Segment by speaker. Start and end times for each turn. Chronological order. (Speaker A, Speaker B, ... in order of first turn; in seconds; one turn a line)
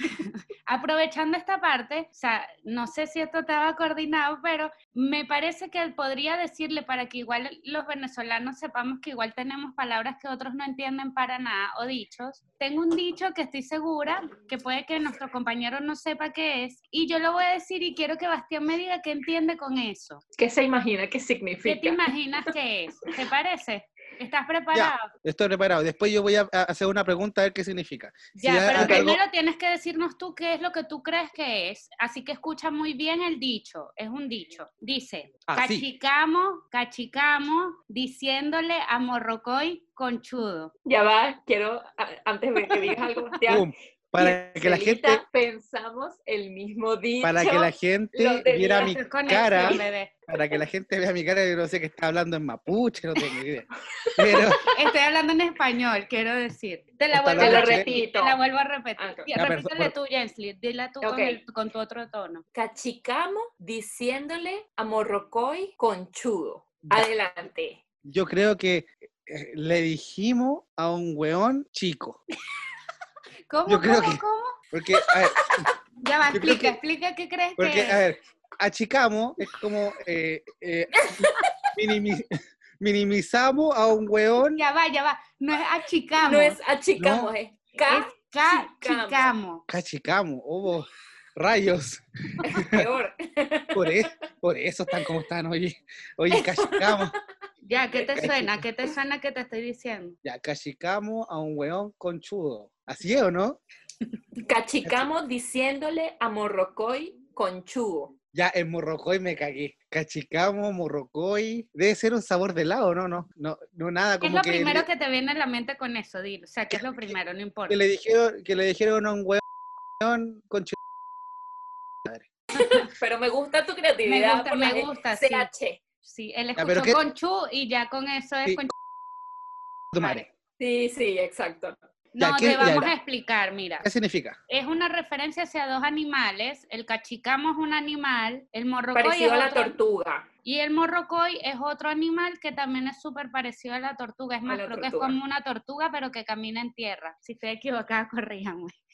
Speaker A: 0.2-20.2
Speaker B: 20.4-22.0
Speaker A: 21.6-25.1
Speaker C: 24.7-29.2
Speaker A: 28.4-40.7
Speaker B: 28.7-29.2
Speaker C: 35.5-35.8
Speaker B: 40.9-49.0
Speaker C: 43.5-45.2
Speaker C: 47.2-54.6
Speaker A: 48.8-50.1
Speaker B: 54.0-54.6
Speaker A: 54.6-62.4
Speaker C: 57.1-57.9
Speaker B: 57.4-58.4
Speaker B: 59.0-59.3
Speaker C: 59.4-59.9
Speaker B: 61.0-61.4
Speaker B: 62.5-67.8
Speaker C: 68.0-72.2
Speaker A: 73.5-74.6
Speaker C: 73.7-75.7
Speaker B: 75.0-75.7
Speaker A: 76.0-78.0
Speaker C: 76.3-76.8
Speaker C: 77.6-84.6
Speaker B: 81.0-81.5
Speaker A: 84.5-86.6
Speaker B: 86.2-89.3
Speaker C: 87.0-87.3
Speaker A: 87.9-89.6
Speaker C: 89.7-92.9
Speaker B: 92.4-94.1
Speaker C: 93.7-97.1
Speaker B: 96.3-97.2
Speaker A: 97.6-100.2
Speaker C: 98.2-98.6
Speaker C: 100.2-103.6
Speaker B: 104.4-108.1
Speaker C: 104.8-105.1
Speaker C: 108.3-114.8
Speaker A: 114.2-117.8
Speaker C: 116.7-117.1
Speaker C: 117.7-119.4
Speaker C: 120.0-120.8
Speaker B: 122.5-125.8
Speaker A: 124.0-125.5
Speaker A: 126.0-128.7
Speaker C: 126.6-127.0
Speaker C: 129.9-130.3
Speaker A: 130.0-130.2
Speaker B: 130.6-131.8
Speaker A: 132.1-133.8
Speaker C: 132.2-132.9
Speaker C: 133.8-134.4
Speaker A: 134.5-139.8
Speaker B: 138.9-140.3
Speaker A: 140.4-148.7
Speaker B: 144.5-145.2